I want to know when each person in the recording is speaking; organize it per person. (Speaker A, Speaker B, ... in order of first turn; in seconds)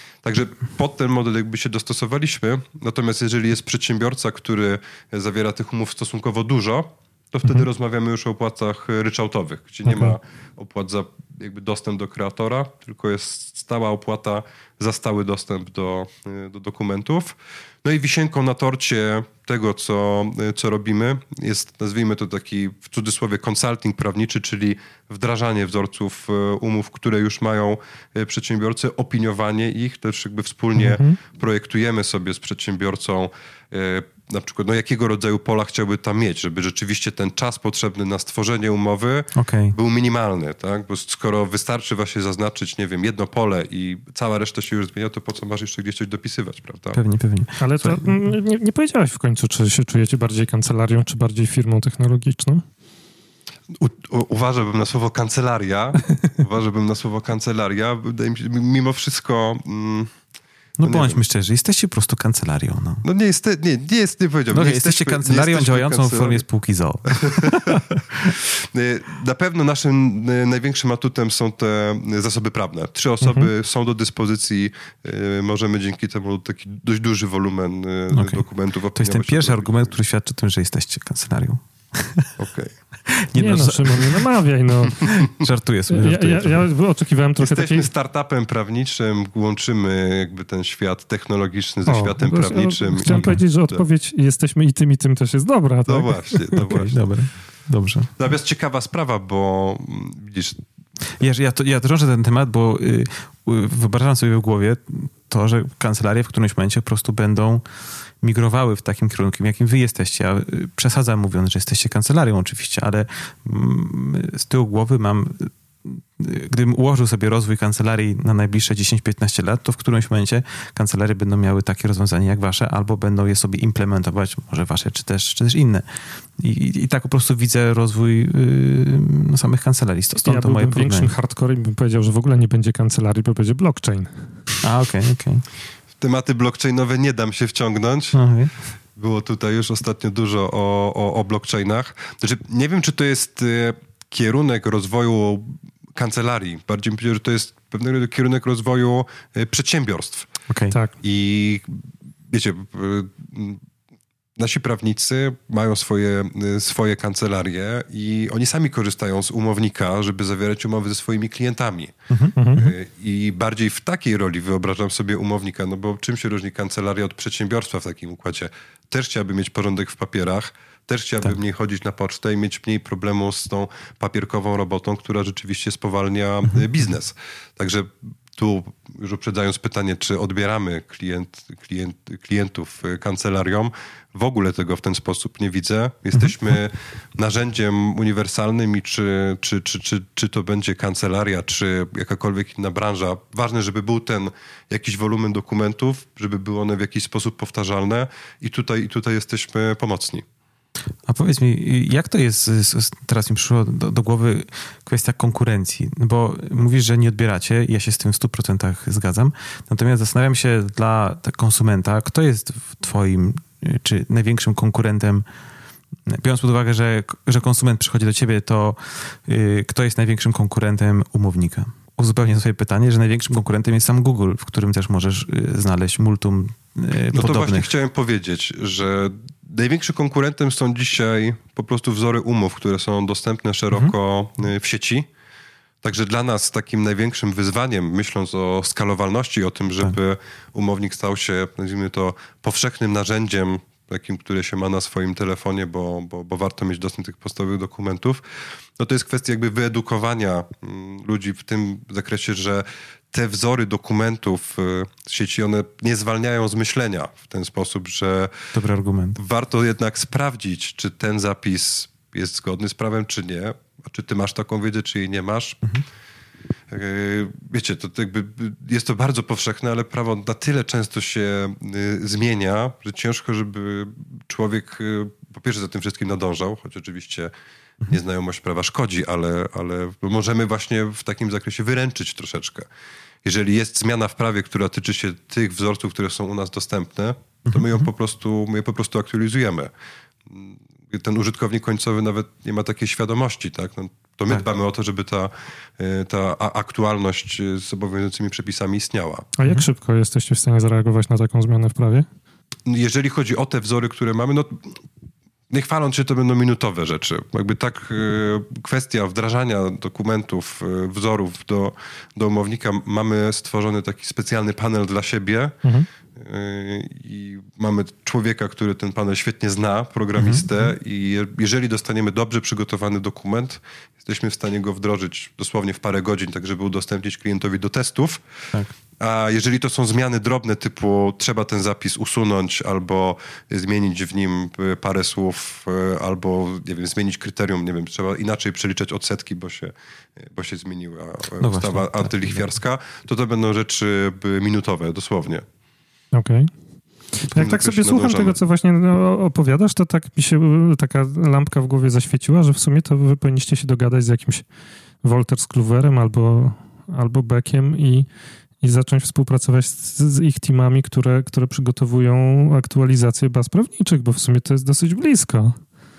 Speaker A: 0.2-47.0, 53.7-60.1, 60.8-61.2, 63.0-66.4, 67.1-79.9, 82.4-82.7, 87.4-93.9, 95.9-97.0, 98.2-100.6, 136.0-138.2, 139.0-150.3, 151.0-151.7, 152.3-153.6, 154.4-161.9, 162.5-200.2, 227.1-235.1, 235.8-248.2, 248.8-258.5, 259.2-265.6, 266.7-277.3, 277.9-282.7, 283.2-289.7, 290.3-299.3, 302.7-304.8, 305.5-315.6, 316.2-328.2, 329.0-345.4, 347.3-348.4
Speaker B: 9.9-10.2, 30.8-31.2, 47.6-52.6, 73.2-73.5, 83.4-85.2, 85.9-87.9, 91.9-96.9, 130.2-134.2, 162.4-162.7, 299.4-302.1, 346.1-346.5, 347.2-354.4, 355.0-358.1, 358.6-365.6
Speaker C: 39.4-39.8, 46.9-48.1, 60.8-63.0, 64.5-68.3, 78.1-82.3, 83.1-84.2, 84.9-86.7, 93.0-93.4, 96.6-98.1, 101.2-107.6, 108.2-125.8, 126.4-131.1, 134.6-135.4, 138.1-138.5, 150.5-150.8, 162.1-162.6, 201.1-215.3, 216.1-227.7, 258.5-259.2, 287.5-287.9, 320.2-320.6, 341.4-342.4